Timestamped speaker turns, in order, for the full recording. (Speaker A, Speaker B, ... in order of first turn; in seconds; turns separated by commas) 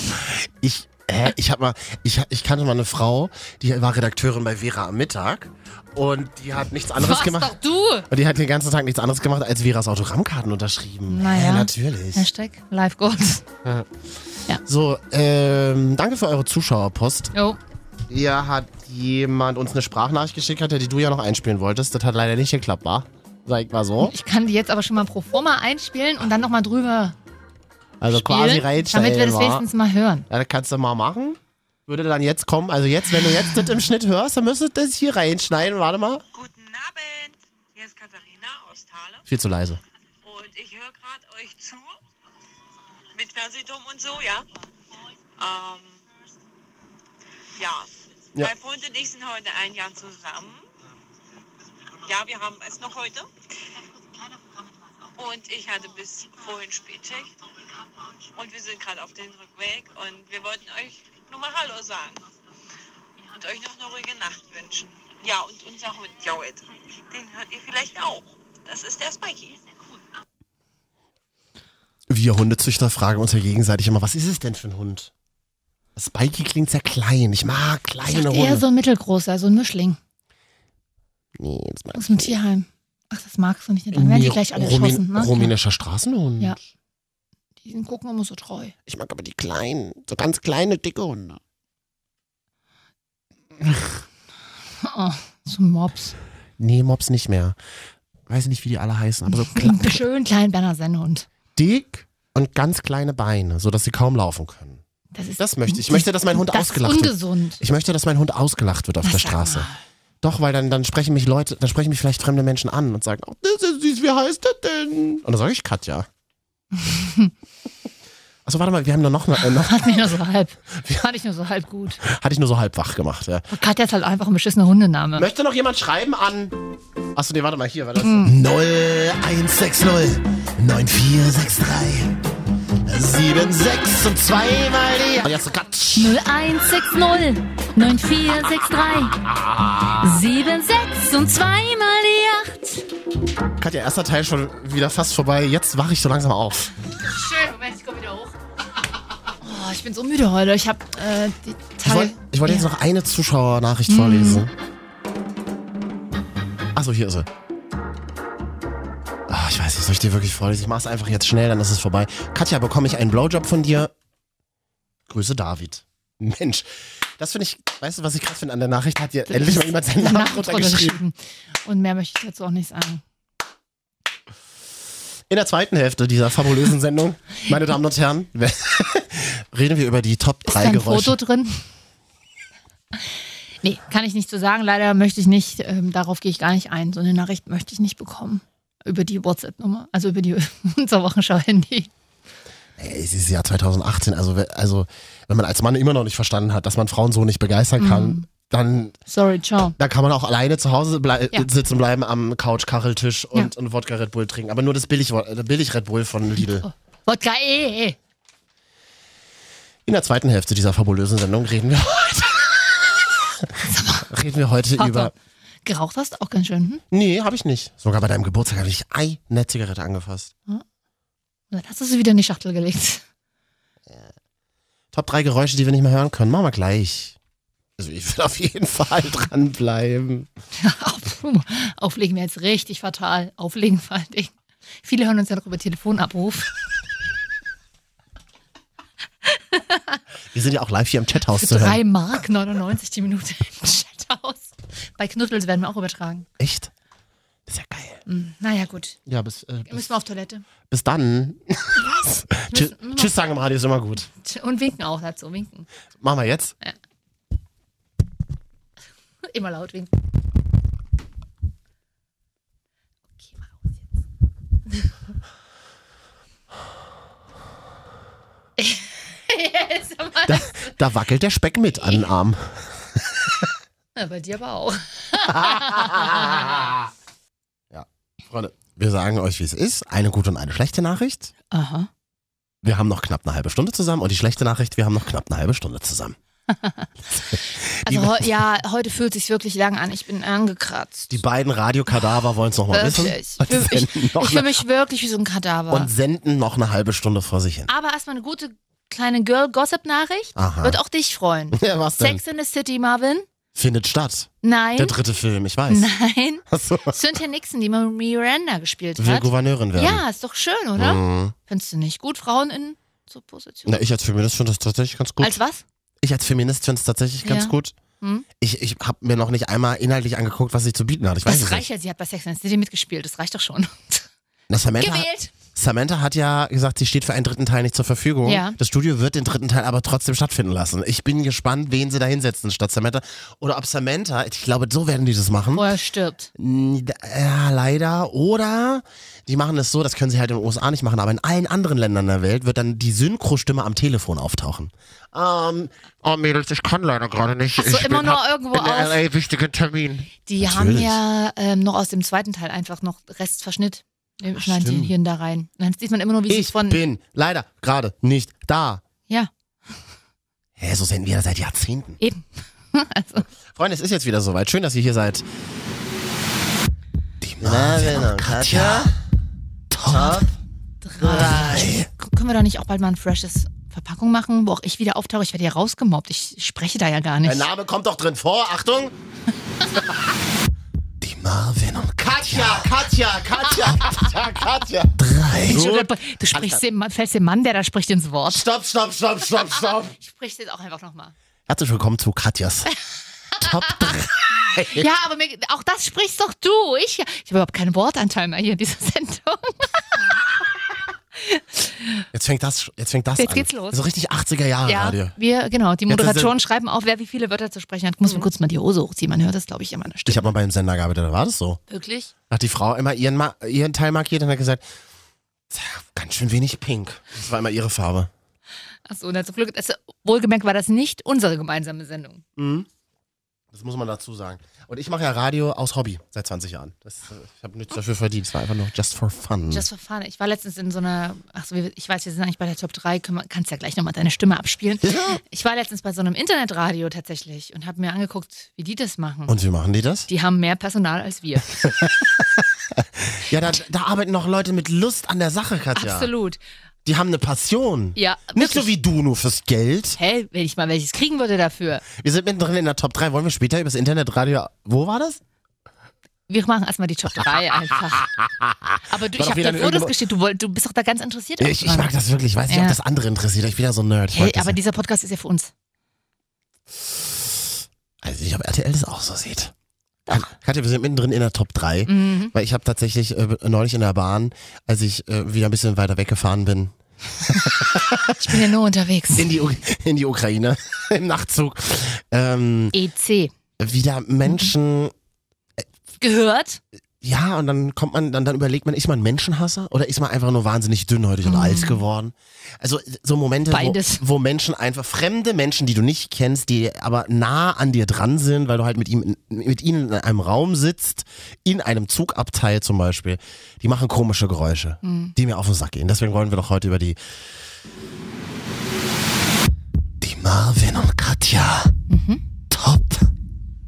Speaker A: 0.1-7.5, Speaker B: 7.0-8.1, Speaker A: 8.1-12.3, Speaker B: 11.1-13.4, Speaker A: 14.6-17.3, Speaker B: 17.3-17.6, Speaker A: 18.1-24.1, Speaker B: 24.0-27.1, Speaker A: 28.0-29.7, Speaker B: 28.1-30.2, Speaker A: 30.3-36.2, Speaker C: 36.3-39.2, Speaker A: 39.2-39.8, Speaker C: 40.2-41.9, Speaker C: 43.1-44.5, Speaker C: 45.4-46.0, Speaker C: 47.6-50.6, Speaker C: 52.0-53.3, Speaker C: 55.1-57.3, Speaker C: 58.2-62.3, Speaker C: 63.2-69.7, Speaker A: 72.1-75.1, Speaker A: 76.0-78.6, Speaker B: 78.0-80.0, Speaker A: 81.4-82.4, Speaker B: 81.9-85.5, Speaker A: 83.9-86.6, Speaker B: 87.6-88.7, Speaker A: 88.8-91.4, Speaker A: 93.6-93.9, Speaker B: 94.8-96.2, Speaker A: 96.6-97.6, Speaker A: 98.3-100.0, Speaker B: 99.3-101.3, Speaker A: 101.5-104.8, Speaker B: 105.1-107.6, Speaker A: 105.4-109.7, Speaker B: 109.0-109.8, Speaker A: 110.2-116.1, Speaker B: 116.7-117.3, Speaker A: 118.4-120.1, Speaker B: 119.4-122.0, Speaker A: 120.7-121.1, Speaker A: 122.0-123.5, Speaker B: 123.5-125.3, Speaker A: 125.2-126.6, Speaker A: 127.1-132.2, Speaker B: 128.0-128.3, Speaker A: 132.8-136.2, Speaker B: 135.9-139.2, Speaker A: 139.3-140.0, Speaker B: 139.9-142.8, Speaker A: 143.6-146.7, Speaker B: 146.9-148.3, Speaker B: 149.4-152.7, Speaker A: 151.8-154.5, Speaker B: 153.9-154.5, Speaker A: 156.7-157.3, Speaker A: 159.3-163.9, Speaker A: 165.1-171.0, Speaker B: 169.3-173.0, Speaker A: 175.3-181.2, Speaker B: 180.4-181.6, Speaker B: 183.6-191.9, Speaker A: 192.8-199.0, Speaker B: 197.8-198.3, Speaker B: 199.1-199.8, Speaker A: 199.8-206.7, Speaker B: 206.6-208.0, Speaker A: 209.8-213.5, Speaker B: 213.6-214.1, Speaker A: 214.1-215.1, Speaker B: 214.8-215.1, Speaker B: 215.6-216.8, Speaker A: 216.9-220.3, Speaker B: 221.5-223.0, Speaker A: 224.9-227.2, Speaker A: 227.8-230.3, Speaker B: 230.6-236.5, Speaker B: 239.3-240.0, Speaker A: 240.3-241.8, Speaker B: 241.3-246.3, Speaker A: 246.4-246.7, Speaker A: 247.5-248.0, Speaker B: 248.1-249.0, Speaker A: 249.1-249.9, Speaker B: 249.7-250.4, Speaker A: 250.7-254.1, Speaker B: 252.5-253.1, Speaker B: 254.2-255.7, Speaker A: 256.0-256.6, Speaker B: 259.3-259.9, Speaker B: 263.2-263.8, Speaker B: 264.7-264.9, Speaker B: 268.6-270.7, Speaker A: 270.2-273.4, Speaker B: 273.9-276.7, Speaker A: 275.1-276.9, Speaker A: 277.7-281.3, Speaker B: 281.5-281.9, Speaker A: 282.6-286.2, Speaker B: 286.5-291.2, Speaker A: 287.7-288.3, Speaker A: 291.1-294.6, Speaker B: 292.7-295.9, Speaker A: 295.7-297.7, Speaker B: 297.7-303.3, Speaker A: 300.4-300.8, Speaker A: 301.5-302.2, Speaker A: 303.5-305.9, Speaker B: 304.4-305.0, Speaker B: 305.7-313.8, Speaker A: 306.5-307.0, Speaker A: 309.0-310.0, Speaker A: 310.8-311.3, Speaker A: 313.6-315.4, Speaker B: 315.2-315.6, Speaker A: 316.0-317.7, Speaker B: 317.2-318.2, Speaker A: 318.4-321.7, Speaker B: 321.2-325.3, Speaker A: 324.5-335.7, Speaker B: 328.2-328.6, Speaker B: 335.5-336.3, Speaker A: 336.4-351.0, Speaker B: 347.6-349.0, Speaker B: 350.2-356.8, Speaker A: 354.3-354.9, Speaker A: 356.3-358.8, Speaker A: 360.6-362.0, Speaker B: 362.0-363.3, Speaker A: 363.3-365.3, Speaker A: 367.4-368.9, Speaker A: 369.7-370.3, Speaker B: 369.9-370.3, Speaker B: 370.8-377.5, Speaker A: 371.0-371.9, Speaker A: 377.2-378.9, Speaker A: 381.0-386.6, Speaker B: 385.4-388.4, Speaker A: 388.3-389.9, Speaker B: 389.5-391.1, Speaker A: 391.5-392.7, Speaker B: 393.4-394.0, Speaker A: 393.4-394.9, Speaker B: 394.5-400.0, Speaker B: 401.2-402.0, Speaker A: 402.1-405.1, Speaker B: 403.2-403.8, Speaker B: 404.6-410.3, Speaker A: 405.9-406.3, Speaker A: 410.1-411.6, Speaker B: 411.7-412.1, Speaker A: 412.3-414.6, Speaker A: 415.5-418.1, Speaker B: 418.9-422.2, Speaker A: 422.4-422.7, Speaker A: 423.5-429.6, Speaker B: 429.5-439.3, Speaker A: 434.8-435.2, Speaker A: 439.3-440.1, Speaker B: 440.1-441.6, Speaker A: 441.6-446.1, Speaker B: 445.7-446.4, Speaker A: 446.8-450.0, Speaker B: 447.9-448.7, Speaker B: 450.0-451.8, Speaker A: 451.9-455.2, Speaker B: 456.3-458.1, Speaker A: 457.9-459.9, Speaker B: 458.9-461.9, Speaker A: 461.4-464.6, Speaker B: 462.5-462.8, Speaker B: 464.1-465.5, Speaker A: 468.0-469.5, Speaker B: 470.1-470.3, Speaker A: 470.1-478.4, Speaker B: 471.9-472.3, Speaker B: 478.1-479.3, Speaker A: 479.1-482.8, Speaker B: 482.7-483.3, Speaker A: 483.6-484.9, Speaker B: 484.2-484.5, Speaker B: 486.0-486.6, Speaker A: 487.0-507.0, Speaker B: 491.2-491.8, Speaker B: 493.5-494.0, Speaker B: 504.8-505.1, Speaker A: 510.0-511.7, Speaker B: 511.9-512.2, Speaker A: 512.5-513.1